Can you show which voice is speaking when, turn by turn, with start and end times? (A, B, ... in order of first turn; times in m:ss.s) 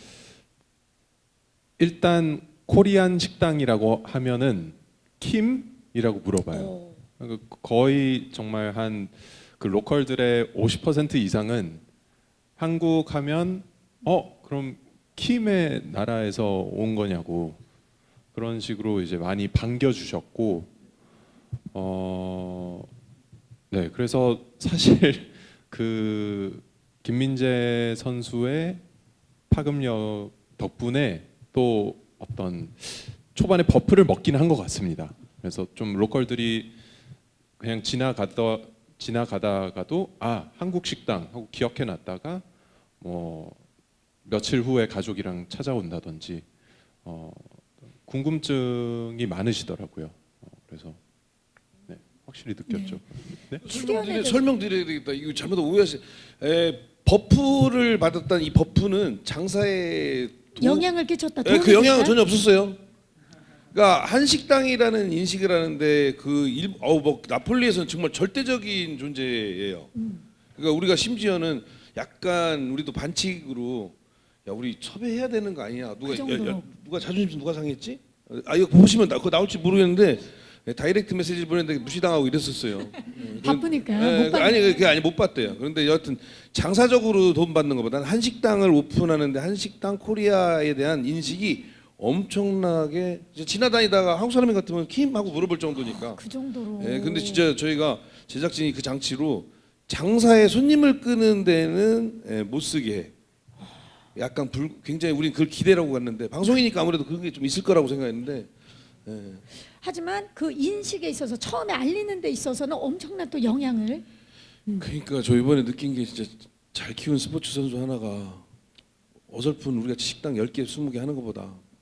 0:01.8-0:11.8 A
0:06.5-0:06.9 B
0:12.6-0:17.6 A
0:18.3-0:20.7 A
0:21.7-0:22.9 A
0:23.7-0:28.8 A
0:29.5-0:36.7 A
0:37.6-0:42.4 A
0:43.0-0:43.6 A
0:44.2-0:46.5 A
0:47.0-0:51.0 A
0:51.9-0:53.6 A
0:52.7-0:53.0 B
0:53.6-0:54.4 B
0:53.6-1:00.9 C
1:00.6-1:02.2 B
1:01.4-1:02.8 C
1:03.7-1:09.9 C
1:10.0-1:10.2 B
1:10.6-1:14.0 C
1:14.5-1:36.2 C
1:16.1-1:16.6 B
1:23.4-1:24.9 B
1:35.8-1:37.5 B
1:36.8-1:43.1 C
1:44.2-1:48.5 C
1:49.0-1:49.4 C
1:49.8-1:54.0 B
1:54.8-1:58.4 C
1:59.3-2:01.6 C